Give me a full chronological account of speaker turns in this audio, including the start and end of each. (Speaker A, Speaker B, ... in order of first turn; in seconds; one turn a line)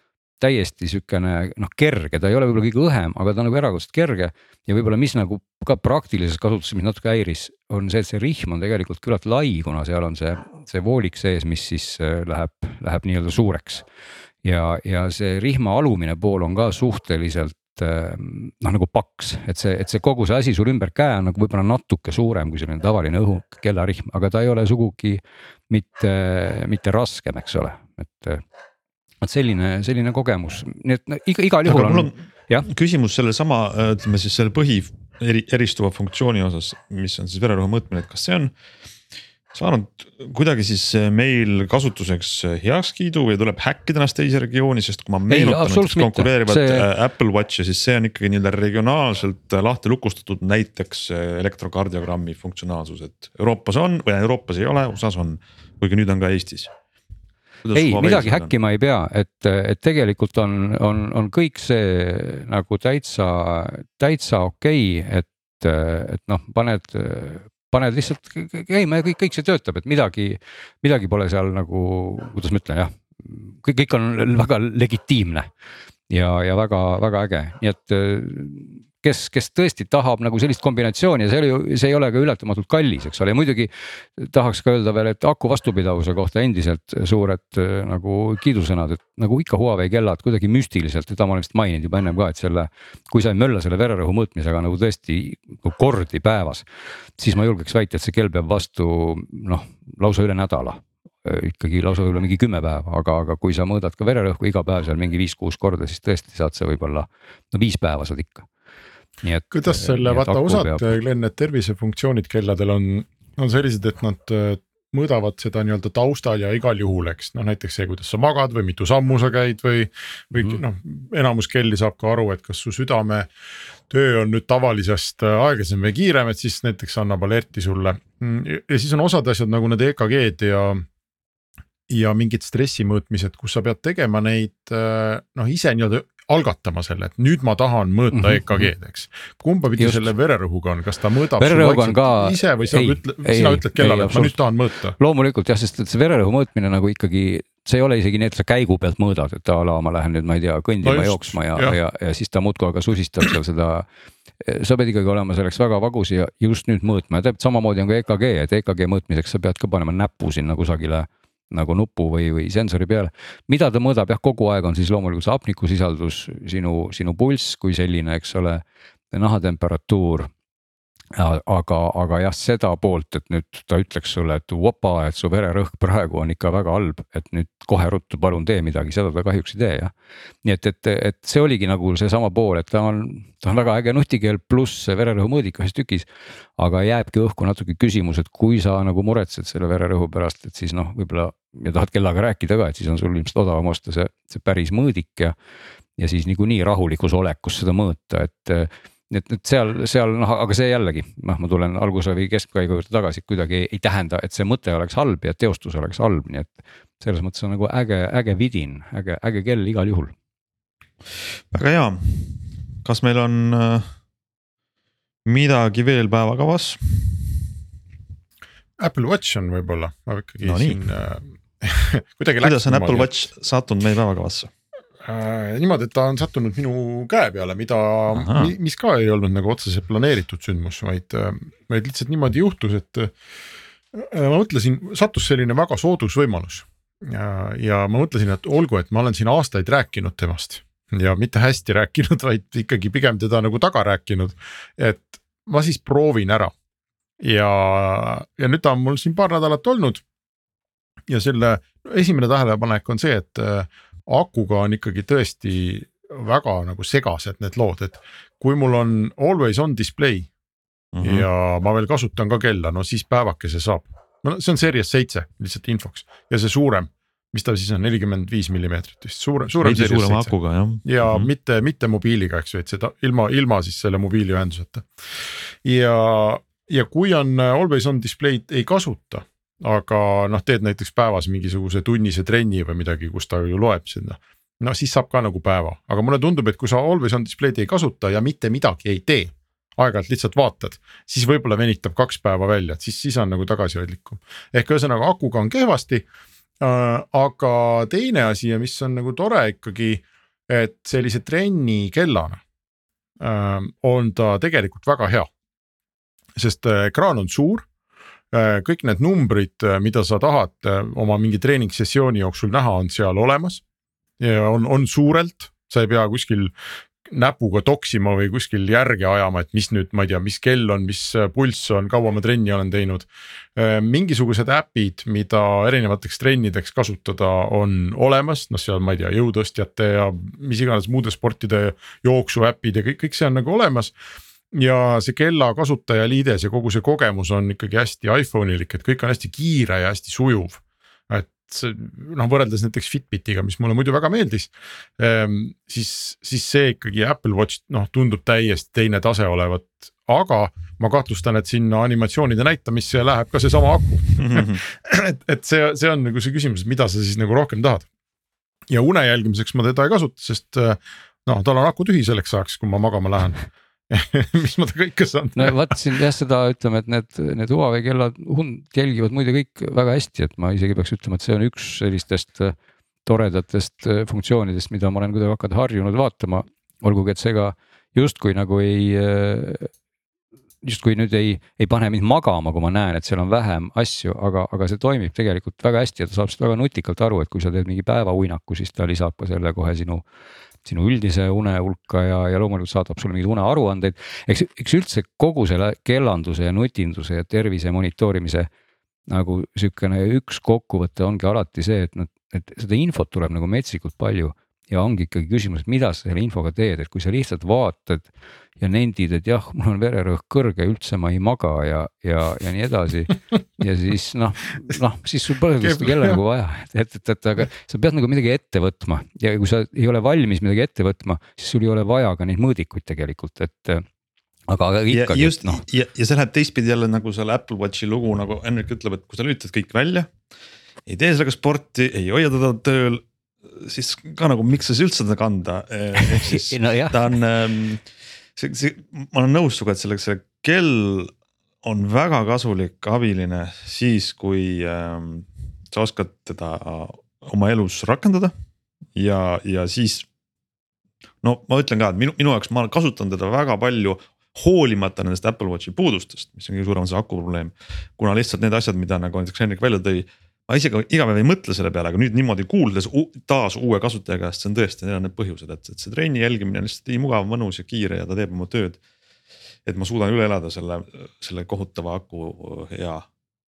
Speaker A: 0.4-13.8
Speaker A: 14.4-28.4
Speaker A: 29.2-32.7
Speaker B: 31.7-38.5
Speaker B: 39.5-56.7
Speaker A: 45.3-46.9
Speaker B: 57.6-58.5
Speaker A: 57.7-75.5
Speaker A: 76.1-96.7
Speaker A: 97.2-108.5
Speaker A: 109.2-110.9
Speaker C: 109.5-123.3
Speaker C: 123.9-130.9
Speaker C: 131.9-145.0
Speaker A: 138.1-138.7
Speaker A: 139.8-140.1
Speaker A: 141.4-144.4
Speaker A: 145.0-153.9
Speaker C: 150.8-151.8
Speaker A: 154.4-170.3
Speaker A: 171.2-179.9
Speaker A: 180.4-186.1
Speaker A: 186.6-195.3
Speaker A: 196.0-210.1
Speaker B: 211.5-213.9
Speaker B: 215.3-217.4
Speaker C: 218.8-223.1
Speaker B: 220.4-220.8
Speaker B: 222.4-224.5
Speaker C: 225.0-233.2
Speaker B: 228.1-228.5
Speaker C: 233.9-246.5
Speaker C: 247.2-250.0
Speaker C: 251.1-260.3
Speaker B: 260.9-261.3
Speaker C: 261.0-274.9
Speaker B: 269.6-271.3
Speaker C: 275.6-296.1
Speaker C: 296.6-302.4
Speaker C: 303.2-305.3
Speaker C: 306.4-307.7
Speaker C: 308.3-313.6
Speaker C: 314.2-316.5
Speaker C: 317.1-333.9
Speaker C: 334.5-357.9
Speaker B: 354.2-354.6
Speaker C: 358.7-365.8
Speaker A: 365.4-372.6
Speaker A: 373.1-379.7
Speaker A: 380.6-390.0
Speaker A: 390.6-398.5
Speaker A: 399.1-423.9
Speaker C: 415.6-416.2
Speaker A: 424.5-425.6
Speaker B: 424.9-430.1
Speaker B: 430.9-437.9
Speaker A: 436.0-437.0
Speaker B: 438.4-441.1
Speaker B: 441.6-448.3
Speaker B: 449.0-450.1
Speaker B: 451.2-468.8
Speaker B: 469.7-473.1